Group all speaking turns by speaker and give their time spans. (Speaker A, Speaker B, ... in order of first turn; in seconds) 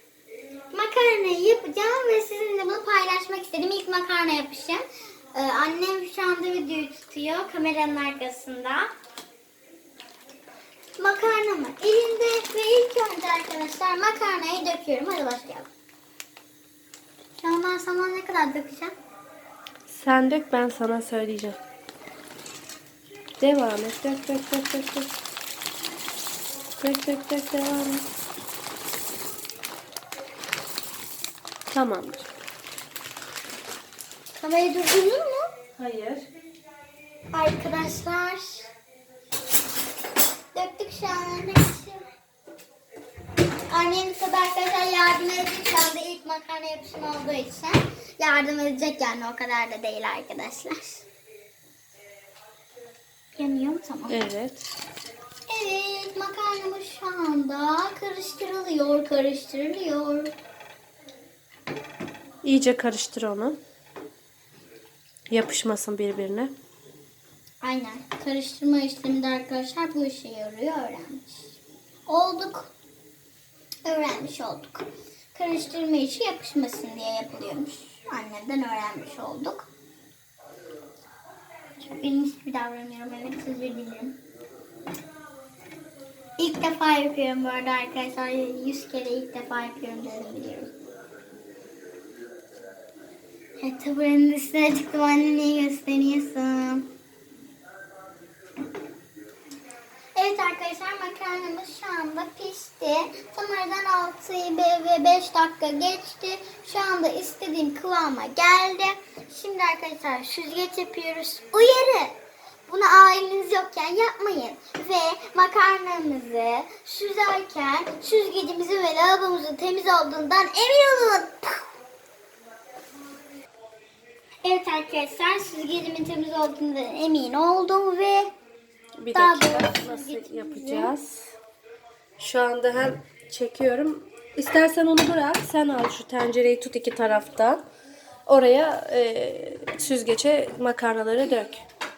Speaker A: 0.7-4.8, 5.3-8.9, 11.0-15.7, 17.4-18.9, 34.4-35.5, 37.3-38.7, 40.5-42.1, 43.7-51.1, 53.4-54.2, 55.5-60.3, 67.6-72.7, 73.9-79.7, 81.8-84.2, 86.4-90.7, 93.6-96.9, 100.2-121.7, 124.4-128.3, 129.1-130.9
Speaker B: 19.9-21.6, 23.4-25.1, 26.8-28.1, 31.7-32.3, 35.8-36.3, 54.1-54.6, 62.4-63.6, 65.3-66.5, 129.0-131.3, 132.2-137.6, 138.3-141.6